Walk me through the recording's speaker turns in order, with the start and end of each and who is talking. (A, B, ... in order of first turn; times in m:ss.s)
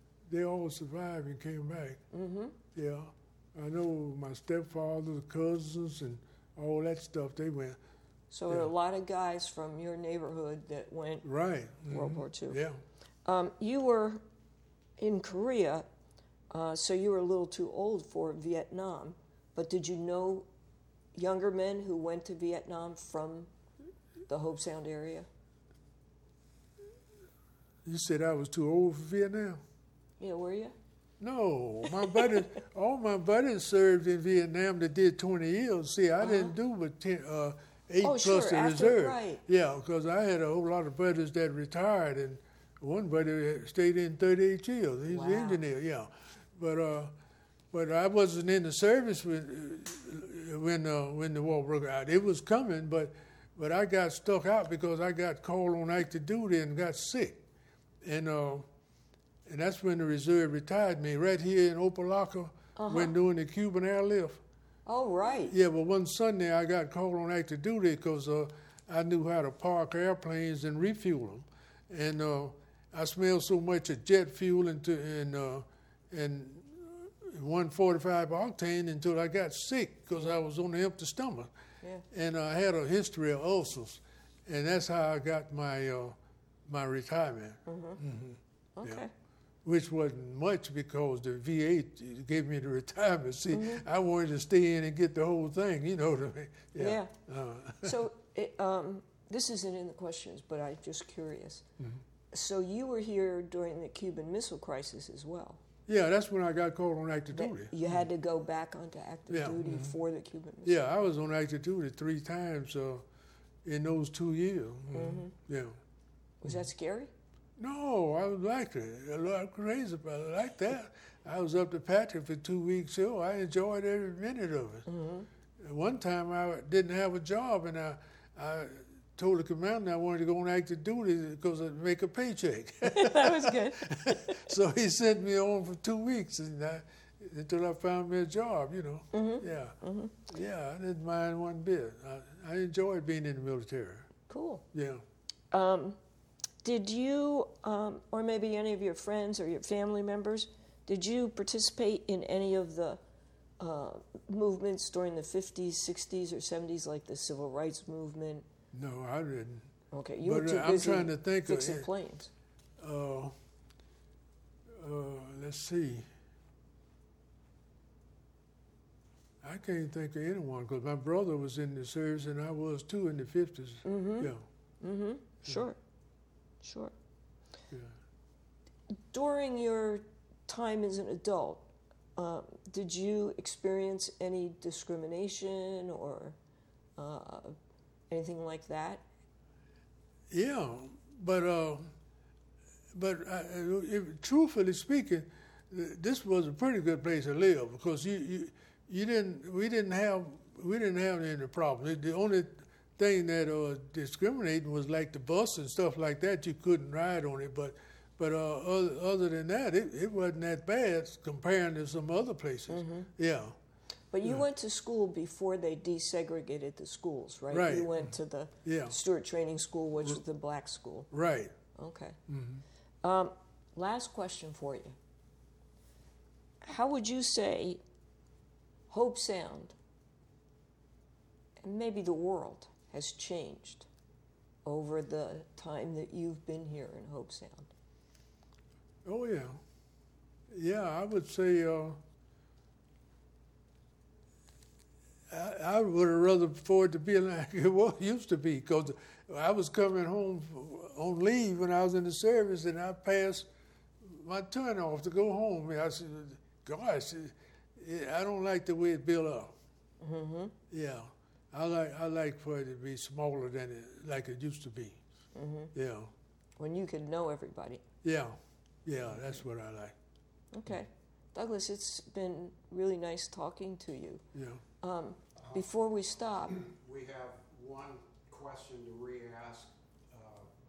0:00.3-0:02.0 A
0:02.1-0:02.6 B
0:02.7-0:07.8 A
0:08.3-0:11.3 B
0:11.2-0:12.8 A
0:11.9-0:12.6 B
0:13.2-0:14.2 B
0:15.0-0:15.8 B
0:16.5-0:20.5 B
0:21.1-0:23.5 B
0:24.3-0:25.3 B
0:27.8-0:29.6 A
0:30.2-0:30.7 B
0:31.2-0:47.1 A
0:36.2-0:36.5 B
0:38.0-0:39.4 B
0:45.1-0:45.6 B
0:47.7-0:57.4 A
0:58.0-0:58.7 A
0:59.4-1:04.4 A
1:02.8-1:03.1 B
1:04.8-1:05.5 B
1:05.5-1:21.5 A
1:22.1-1:29.0 A
1:27.6-1:28.0 B
1:28.8-1:29.1 B
1:29.6-1:38.0 A
1:33.5-1:33.8 B
1:36.8-1:37.1 B
1:37.8-1:41.6 B
1:42.3-1:45.6 B
1:45.9-1:48.0 A
1:47.3-1:50.9 B
1:49.3-1:50.0 A
1:50.6-1:53.0 A
1:53.6-1:55.8 A
1:54.9-1:55.3 B
1:56.4-1:57.1 B
1:57.6-2:04.9 A
2:04.9-2:05.3 B
2:05.6-2:19.8 A
2:12.8-2:14.4 B
2:19.1-2:20.2 B
2:20.3-2:24.1 A
2:24.3-2:24.6 B
2:24.7-2:25.0 A
2:25.5-2:26.0 B
2:26.6-2:33.0 B
2:33.6-2:38.4 B
2:38.7-2:39.7 A
2:39.9-2:42.3 B
2:40.2-2:41.9 A
2:42.8-2:43.3 A
2:44.7-2:46.1 A
2:49.4-2:54.4 A
2:53.8-2:55.8 B
2:56.6-2:56.9 B
2:57.7-2:58.0 A
2:59.1-3:06.4 B
3:07.0-3:07.6 B
3:08.1-3:09.0 B
3:10.3-3:11.9 A
3:12.9-3:33.6 A
3:32.7-3:33.1 B
3:34.1-3:41.1 B
3:37.5-3:38.1 A
3:38.6-3:39.0 A
3:41.1-3:41.6 A
3:41.7-3:42.2 B
3:42.3-3:42.6 A
3:43.0-3:45.0 B
3:46.6-3:47.8 B
3:48.9-3:49.8 B
3:51.6-3:53.9 B
3:54.6-3:57.7 B
3:59.0-3:59.6 A
4:00.5-4:02.0 A
4:05.3-4:13.5 A
4:14.0-4:19.5 A
4:20.0-4:20.5 B
4:20.7-4:25.0 A
4:25.3-4:25.7 B
4:25.7-4:26.1 A
4:26.6-4:27.8 B
4:28.0-4:29.9 A
4:30.5-4:34.2 B
4:34.3-4:34.6 A
4:34.8-4:36.6 B
4:36.5-4:40.5 C